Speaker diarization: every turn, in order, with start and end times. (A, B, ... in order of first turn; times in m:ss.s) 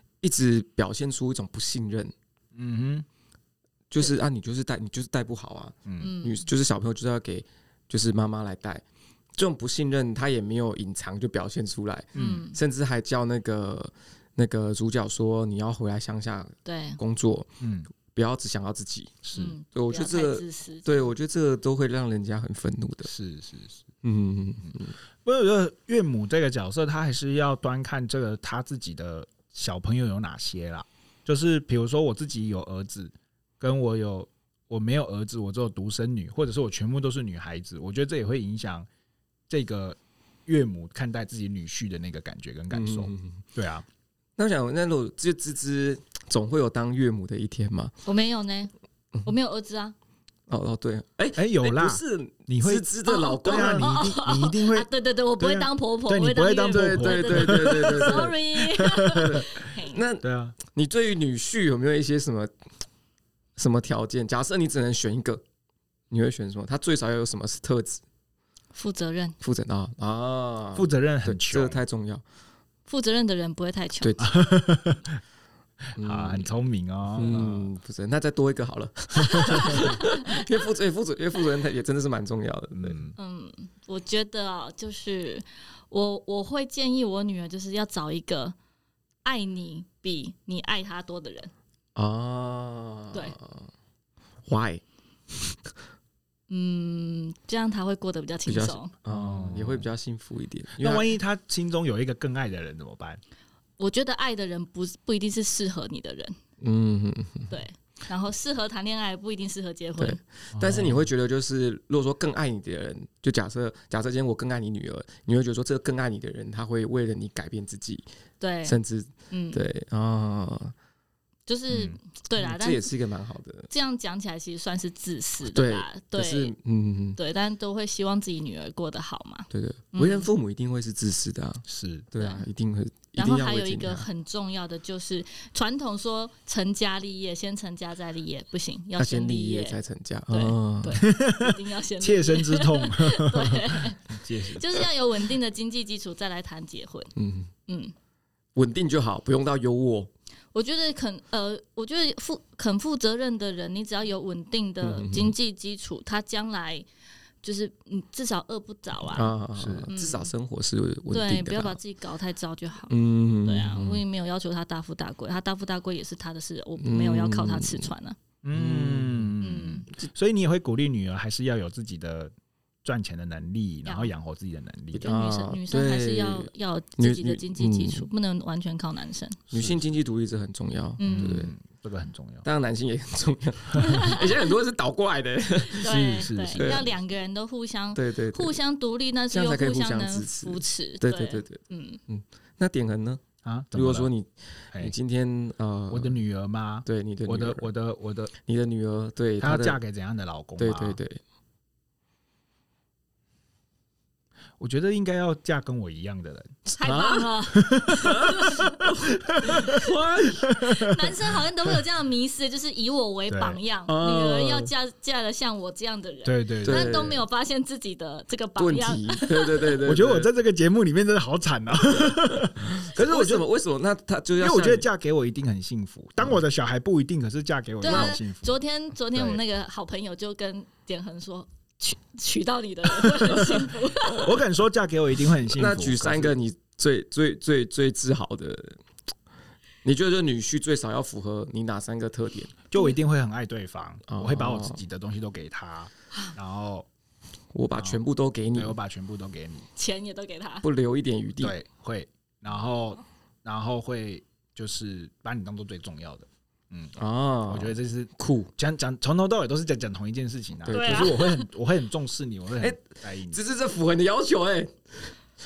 0:00.2-0:02.1 A
0:02.6-0:03.1 B
0:03.9-0:08.8 A
0:05.8-0:06.1 B
0:06.0-0:06.4 C
0:09.4-0:17.6 A
0:12.1-0:12.5 B
0:12.1-0:12.6 C
0:16.6-0:17.0 C
0:17.6-0:17.9 B
0:18.1-0:23.1 A
0:19.2-0:19.6 B
0:19.3-0:21.1 C
0:23.1-0:23.8 B
0:24.0-0:25.0 A
0:25.2-0:38.9 B
0:39.5-0:43.8 B
0:42.7-0:43.4 A
0:44.4-0:47.9 A
0:48.1-0:48.7 C
0:49.2-0:50.0 C
0:50.5-0:54.2 A
0:51.4-0:52.9 B
0:53.0-1:00.0 C
0:53.4-0:54.9 B
0:55.4-0:59.6 B
0:56.7-0:58.4 A
0:59.1-1:02.5 A
1:00.2-1:00.6 B
1:03.6-1:05.4 A
1:06.1-1:08.0 A
1:08.7-1:09.4 C
1:09.4-1:12.2 A
1:10.8-1:11.8 B
1:12.9-1:14.2 C
1:14.0-1:14.3 A
1:14.2-1:15.2 B
1:16.0-1:16.5 A
1:16.0-1:17.7 B
1:17.1-1:23.0 A
1:19.3-1:19.9 B
1:22.8-1:23.1 B
1:23.2-1:28.6 C
1:29.2-1:31.5 C
1:32.0-1:33.7 A
1:34.5-1:35.6 A
1:36.5-1:38.9 C
1:38.5-1:41.1 A
1:39.1-1:39.9 B
1:40.8-1:43.2 B
1:43.8-1:46.4 C
1:46.6-1:47.6 A
1:47.5-1:50.2 C
1:50.0-1:58.1 A
1:50.5-1:51.1 B
1:58.4-1:58.8 C
1:58.6-2:00.7 A
1:59.3-1:59.6 C
2:01.5-2:02.9 C
2:01.7-2:02.0 B
2:02.4-2:03.7 A
2:03.7-2:06.5 C
2:05.4-2:07.2 A
2:07.2-2:10.3 C
2:09.5-2:14.1 A
2:11.7-2:12.1 B
2:12.2-2:12.5 C
2:13.2-2:19.8 C
2:19.0-2:21.1 A
2:20.3-2:27.1 C
2:21.0-2:24.9 B
2:27.2-2:27.5 A
2:27.7-2:27.9 C
2:28.6-2:30.1 A
2:30.5-2:36.9 C
2:34.8-2:35.3 A
2:37.4-2:39.3 C
2:39.1-2:41.8 A
2:39.6-2:39.9 B
2:39.9-2:40.3 C
2:41.1-2:42.9 C
2:42.9-2:44.0 A
2:43.4-2:48.2 C
2:46.8-2:47.9 A
2:48.4-2:52.3 B
2:48.5-2:49.3 A
2:49.4-2:49.9 C
2:52.8-2:55.1 B
2:53.9-2:54.1 C
2:54.9-2:58.1 A
2:55.0-2:59.4 C
2:59.5-3:01.5 A
2:59.5-2:59.8 B
3:01.0-3:02.5 B
3:01.0-3:01.3 C
3:02.4-3:06.9 A
3:03.8-3:04.4 C
3:05.8-3:12.0 C
3:05.8-3:07.0 B
3:07.9-3:08.6 A
3:09.3-3:13.2 A
3:13.4-3:14.1 B
3:13.7-3:16.2 A
3:15.9-3:18.3 B
3:16.8-3:17.7 A
3:18.4-3:19.8 A
3:19.4-3:21.0 B
3:20.6-3:21.2 A
3:24.6-3:26.6 B
3:26.7-3:30.5 A
3:26.8-3:28.8 C
3:27.5-3:31.1 B
3:29.4-3:29.9 C
3:30.6-3:39.8 C
3:33.3-3:33.6 B
3:33.9-3:34.7 A
3:36.2-3:37.2 B
3:36.6-3:37.2 A
3:38.6-3:40.3 A
3:39.8-3:43.5 B
3:42.8-3:44.9 A
3:44.4-3:48.6 B
3:47.8-3:54.4 C
3:47.9-3:48.2 A
3:54.2-3:56.4 B
3:55.6-3:58.8 A
3:59.8-4:02.5 A
4:02.7-4:06.9 B
4:04.1-4:04.8 A
4:07.5-4:08.8 A
4:08.6-4:09.7 B
4:09.8-4:10.6 C
4:10.6-4:11.6 A
4:11.4-4:17.0 B
4:17.0-4:18.5 A
4:17.5-4:23.4 B
4:20.6-4:21.2 A
4:20.7-4:21.4 C
4:22.6-4:25.1 A